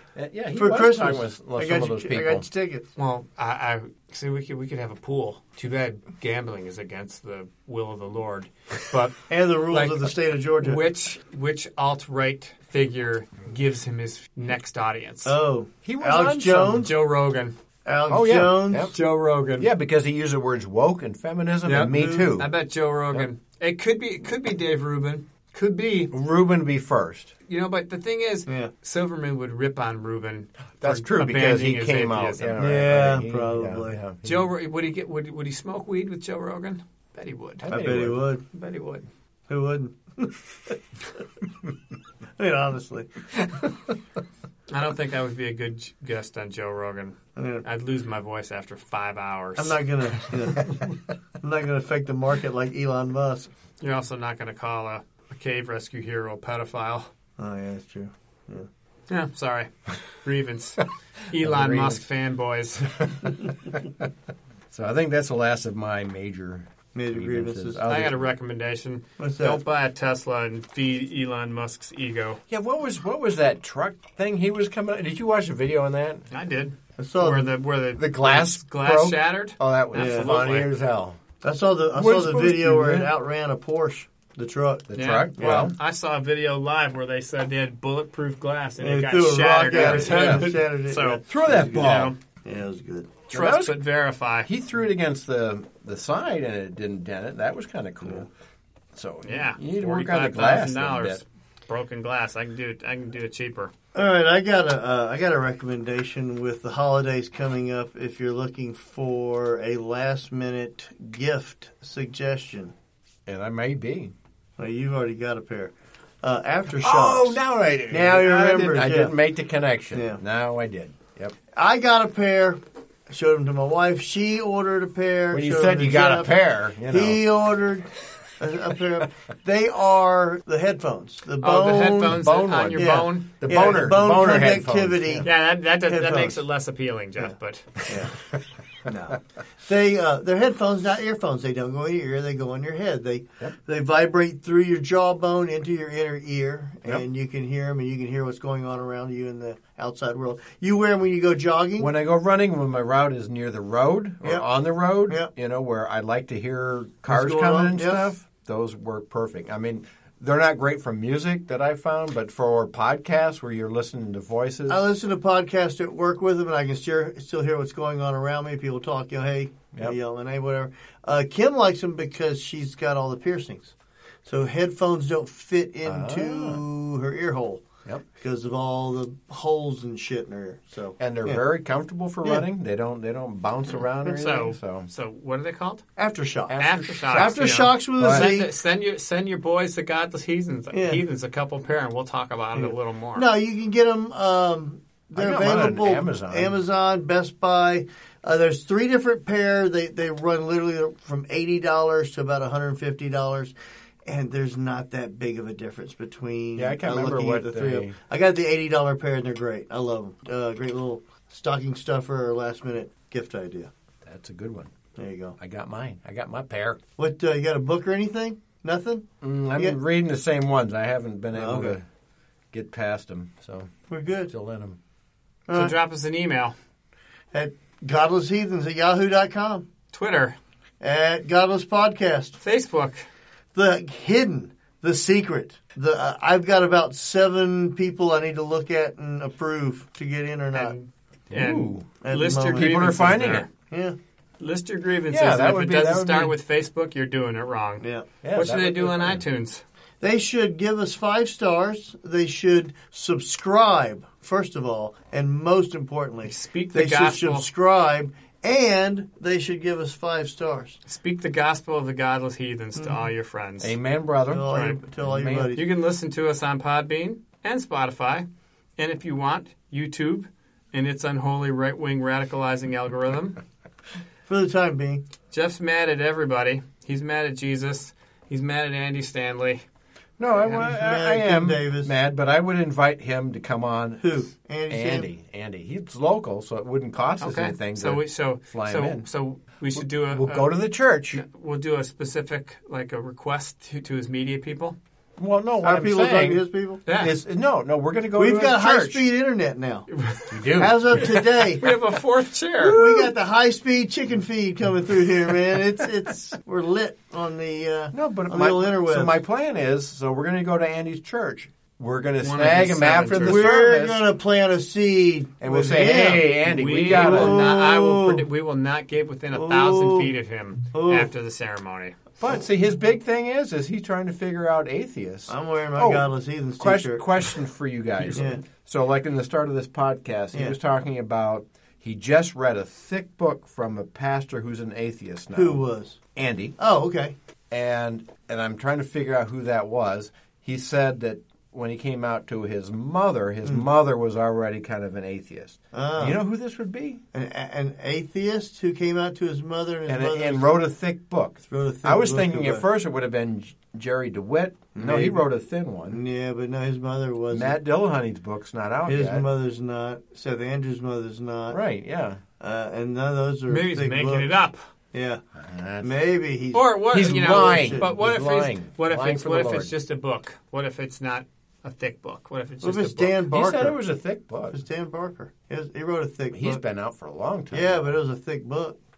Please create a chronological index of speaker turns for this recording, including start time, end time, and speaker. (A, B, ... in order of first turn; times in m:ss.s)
0:00.1-0:02.4 A
0:00.5-0:02.9 B
0:03.0-0:15.3 C
0:09.3-0:10.8 B
0:15.2-0:16.9 B
0:15.8-0:16.9 A
0:16.8-0:17.6 C
0:17.8-0:18.9 B
0:18.1-0:19.0 A
0:18.9-0:19.7 C
0:19.6-0:22.5 A
0:21.6-0:26.1 C
0:21.9-0:22.3 B
0:26.1-0:27.3 A
0:27.5-0:32.6 C
0:28.5-0:28.7 B
0:30.8-0:34.5 A
0:32.6-0:34.0 B
0:34.2-0:37.7 C
0:37.6-0:38.2 A
0:37.7-0:38.4 B
0:38.5-0:39.0 C
0:39.5-0:40.8 B
0:42.4-0:43.1 B
0:44.7-0:49.8 C
0:47.4-0:47.6 B
0:49.6-0:53.5 B
0:53.8-0:57.1 C
0:57.4-0:58.7 B
0:59.1-1:03.1 C
1:01.4-1:02.0 A
1:04.7-1:08.3 A
1:06.9-1:07.8 B
1:07.9-1:12.4 C
1:09.2-1:09.6 B
1:12.5-1:16.2 A
1:16.3-1:20.7 C
1:17.0-1:17.5 B
1:18.0-1:21.2 A
1:19.9-1:20.4 B
1:21.4-1:25.7 B
1:21.9-1:23.1 A
1:24.9-1:25.8 A
1:25.0-1:32.2 C
1:28.8-1:33.2 B
1:29.7-1:30.5 A
1:31.3-1:32.1 A
1:33.3-1:34.5 C
1:33.3-1:33.8 A
1:34.4-1:38.3 A
1:38.9-1:41.2 A
1:39.2-1:43.7 C
1:43.9-1:52.7 B
1:53.2-1:54.1 A
1:54.6-1:57.4 B
1:56.7-2:01.3 A
1:57.9-1:59.1 B
1:59.9-2:00.2 B
2:01.5-2:06.3 B
2:05.3-2:07.2 A
2:06.9-2:12.2 B
2:11.4-2:13.4 C
2:12.1-2:15.2 A
2:12.7-2:15.3 B
2:15.2-2:17.7 C
2:15.9-2:16.4 B
2:17.9-2:18.2 B
2:18.8-2:31.9 B
2:31.8-2:44.8 A
2:37.0-2:38.1 B
2:44.7-2:53.7 B
2:54.2-3:01.4 B
2:55.8-2:56.6 A
3:01.0-3:04.9 A
3:04.0-3:05.8 C
3:06.0-3:08.5 B
3:06.5-3:08.4 A
3:06.6-3:13.3 C
3:10.7-3:11.0 B
3:12.6-3:23.5 B
3:15.1-3:16.6 A
3:24.0-3:33.7 B
3:26.6-3:28.0 A
3:34.0-3:34.7 A
3:35.0-3:35.4 B
3:35.4-3:36.8 A
3:37.0-3:39.8 B
3:39.2-3:41.8 A
3:41.3-3:41.8 B
3:42.5-3:43.7 A
3:43.9-3:44.3 B
3:44.3-3:44.8 A
3:45.5-3:45.8 B
3:45.5-3:46.5 C
3:47.3-3:49.7 B
3:49.9-3:50.4 C
3:50.8-3:52.4 B
3:52.4-3:53.0 C
3:53.5-4:00.8 B
4:00.5-4:03.5 C
4:01.3-4:01.9 A
4:02.0-4:03.0 B
4:02.5-4:03.5 A
4:03.7-4:04.0 B
4:04.4-4:09.6 C
4:05.1-4:06.4 A
4:07.8-4:08.1 B
4:08.2-4:09.2 A
4:10.0-4:20.8 B
4:16.2-4:17.5 C
4:20.8-4:23.7 C
4:22.8-4:23.0 B
4:23.6-4:25.5 A
4:24.3-4:25.6 B
4:24.5-4:24.8 C
4:25.5-4:33.4 C
4:34.2-4:35.0 B
4:35.3-4:39.6 C
4:40.2-4:49.0 A
4:40.5-4:41.9 B
4:44.0-4:45.0 B
4:47.2-4:50.5 C
4:49.7-4:51.2 A
4:51.1-4:54.8 C
4:55.2-4:59.0 A
4:55.6-4:56.8 B
4:56.8-4:57.2 C
4:58.1-4:59.9 B
4:59.9-5:02.8 C
5:00.4-5:01.7 B
5:02.6-5:09.1 B
5:02.7-5:03.1 A
5:07.9-5:14.0 A
5:12.2-5:13.5 C
5:13.2-5:16.3 B
5:15.4-5:17.5 A
5:16.4-5:22.0 C
5:16.8-5:18.2 B
5:19.3-5:20.1 B
5:20.7-5:21.1 B
5:22.2-5:35.6 A
5:25.3-5:27.4 B
5:28.1-5:28.4 B
5:35.3-5:36.0 B
5:36.1-5:36.6 A
5:36.6-5:37.1 B
5:37.5-5:47.0 A
5:45.7-5:46.2 B
5:47.1-5:50.5 B
5:49.9-5:56.0 A
5:51.5-5:52.6 B
5:54.7-5:55.2 B
5:55.9-5:57.6 B
5:57.3-5:59.3 A
5:58.8-6:01.6 B
6:01.5-6:02.2 A
6:02.4-6:04.4 B
6:03.5-6:04.6 C
6:04.9-6:05.2 B
6:05.4-6:06.0 A
6:05.8-6:06.7 B
6:06.5-6:13.2 C
6:06.9-6:09.7 A
6:07.4-6:07.9 B
6:12.6-6:13.8 B
6:13.3-6:14.6 A
6:14.5-6:16.6 B
6:16.3-6:18.0 A
6:17.5-6:18.8 B